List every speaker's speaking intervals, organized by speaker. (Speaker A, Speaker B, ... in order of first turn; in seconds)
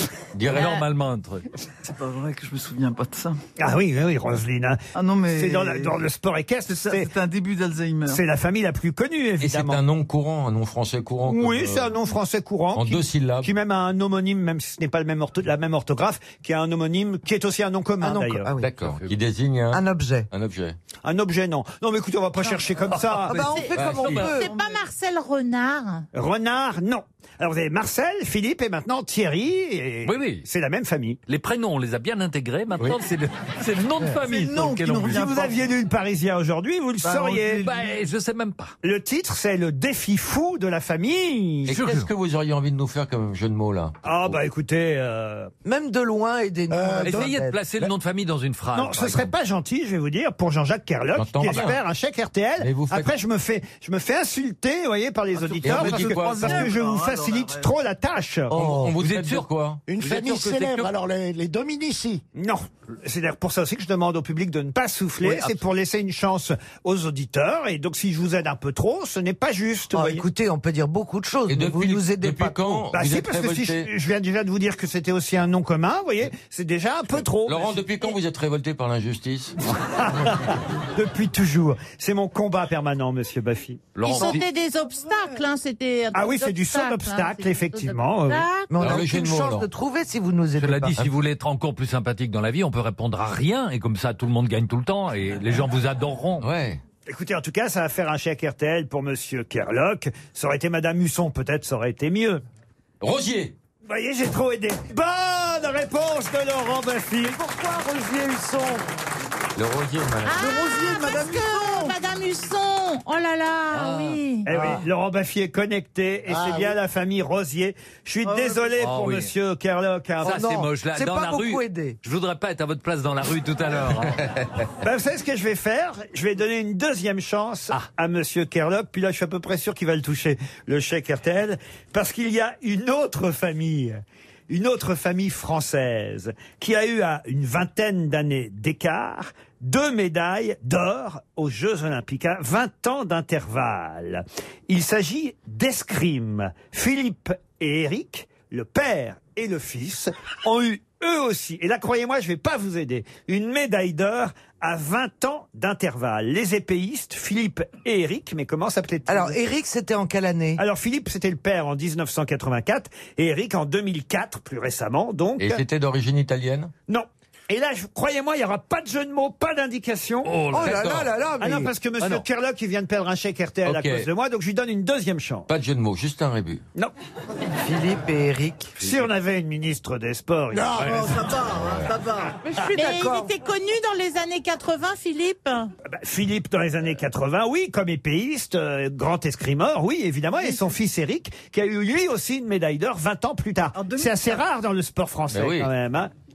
Speaker A: 0.3-0.8, 9.4-12.0, 12.7-13.5, 18.6-20.8, 23.7-24.3, 41.7-44.4, 51.1-51.8, 52.6-53.1, 55.6-56.7, 58.5-59.8, 71.5-73.9, 77.2-79.5, 88.8-89.7, 96.4-96.8, 103.0-103.5, 109.5-110.4, 124.2-124.5, 165.4-166.7, 170.6-171.1, 173.6-174.1, 175.5-176.6, 195.3-195.7
Speaker B: 0.5-1.4, 18.8-19.1, 24.0-24.3, 30.0-30.4, 31.3-35.3, 37.1-38.7, 41.7-42.1, 47.0-49.3, 59.0-60.9, 65.2-65.5, 84.0-84.4, 90.6-96.5, 113.7-114.2, 118.8-119.3, 120.2-124.2, 170.2-170.8
Speaker C: 1.8-3.4, 4.9-6.0, 6.7-8.2, 24.4-24.8, 34.2-35.6, 55.3-57.7, 110.3-112.0, 118.2-118.8, 180.8-182.4, 193.7-194.4
Speaker D: 3.6-7.1, 8.1-9.8, 11.3-18.5, 21.0-23.5, 26.1-31.2, 35.0-37.6, 38.8-41.8, 44.0-45.5, 48.7-58.6, 62.3-70.2, 72.9-77.8, 79.9-84.4, 86.1-88.5, 97.0-102.4, 103.8-107.3, 114.5-120.4, 124.8-159.4, 160.6-165.6, 166.9-170.3, 171.4-175.5, 178.8-180.9, 185.9-196.1
Speaker E: 18.0-18.7, 19.7-20.3, 23.2-24.5, 45.6-47.6, 69.9-72.8, 88.7-91.1, 107.2-108.8, 120.2-122.0, 159.1-160.6, 170.5-171.7, 177.6-179.0, 182.4-183.3
Speaker F: 23.3-26.1, 84.0-88.8, 110.2-114.5, 182.7-185.7
Speaker G: 46.7-47.4, 58.5-59.0, 59.9-62.2, 114.5-114.8, 116.3-116.8, 180.5-181.3